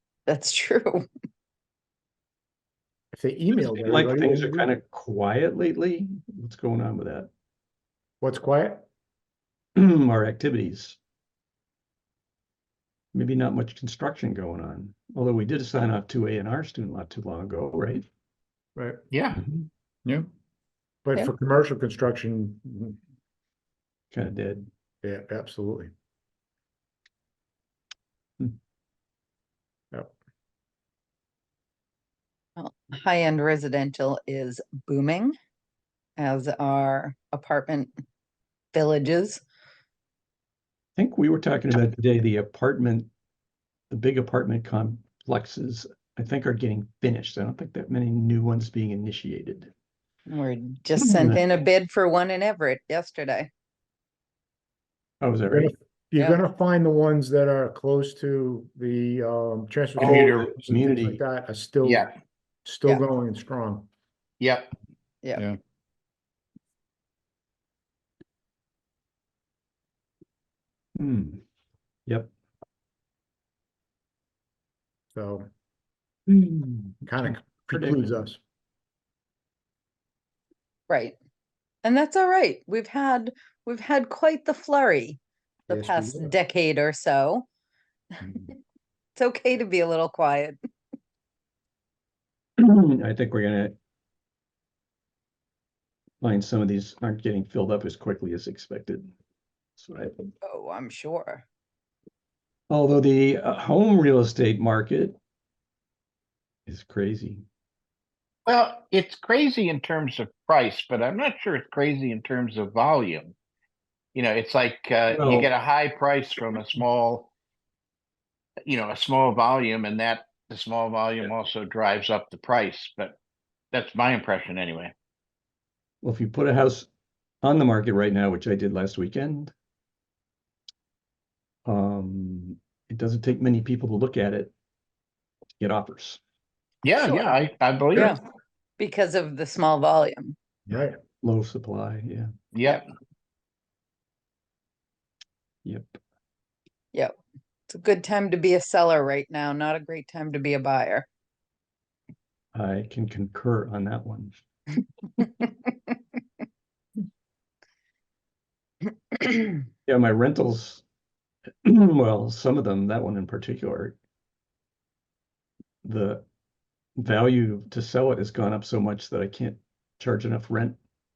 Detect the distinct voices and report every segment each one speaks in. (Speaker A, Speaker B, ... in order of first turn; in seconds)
Speaker A: 0.2-1.1, 32.6-35.3, 36.2-37.9, 38.7-39.4, 50.3-53.5, 80.9-81.1, 81.8-87.5, 89.2-90.6, 100.4-101.4, 137.0-137.4, 138.8-140.3, 147.7-151.1, 159.1-159.5
Speaker B: 3.1-4.7, 8.2-8.9, 18.8-19.0, 21.0-23.0, 25.0-25.9, 55.5-62.0, 62.6-63.9, 75.1-75.5, 77.0-78.4, 85.7-86.3, 140.7-141.0
Speaker C: 3.7-7.3, 9.8-11.0, 13.1-18.1, 24.1-24.7, 41.0-43.1, 43.9-49.7, 51.0-51.5, 55.2-55.7, 60.0-61.2, 71.0-71.4, 76.3-78.2, 92.6-93.7, 96.2-99.1, 99.8-100.3, 102.7-105.2, 106.7-107.4, 115.1-115.5, 126.0-126.9, 127.4-129.5, 131.7-134.5, 135.6-136.2, 141.2-142.3, 145.6-146.0, 152.5-154.4, 159.8-160.8, 161.6-164.0, 165.8-166.2, 167.0-170.8
Speaker D: 19.1-19.4, 60.1-60.4, 61.8-62.1, 64.4-64.7, 108.5-113.3, 114.1-117.3, 118.6-123.2, 123.7-124.9, 136.8-138.0, 142.5-142.8